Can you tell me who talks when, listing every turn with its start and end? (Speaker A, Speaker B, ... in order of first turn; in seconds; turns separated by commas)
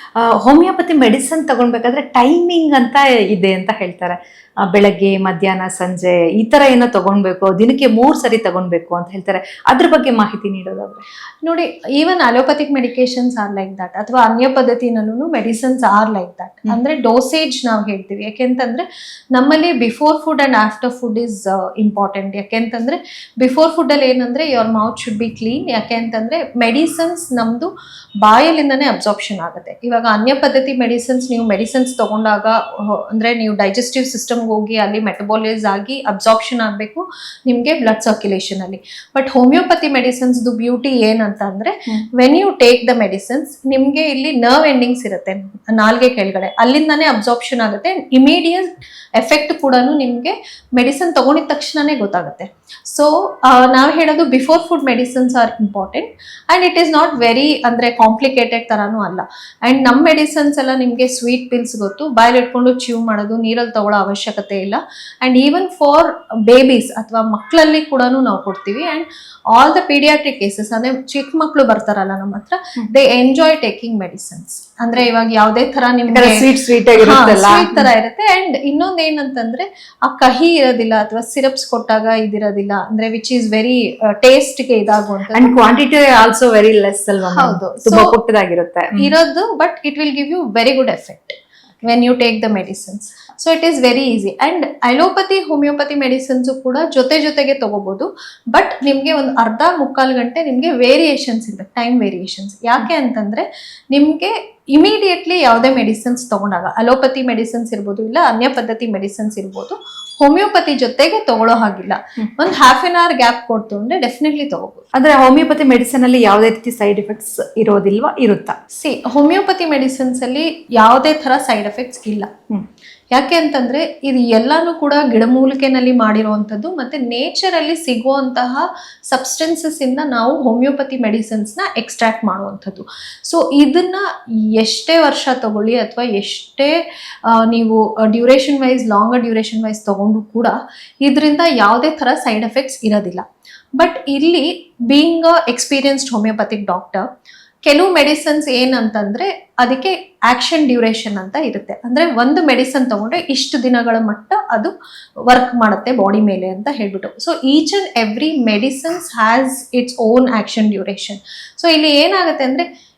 Speaker A: 0.4-4.2, Speaker A: 4.7-11.0, Speaker B: 11.4-27.7, Speaker B: 28.2-76.4, Speaker A: 76.1-77.8, Speaker B: 77.0-85.6, Speaker A: 85.3-89.1, Speaker B: 87.3-88.1, Speaker B: 89.0-114.8, Speaker A: 114.9-118.6, Speaker B: 118.7-122.3, Speaker B: 123.1-143.2, Speaker B: 143.8-147.1, Speaker B: 147.7-154.7, Speaker B: 155.3-162.7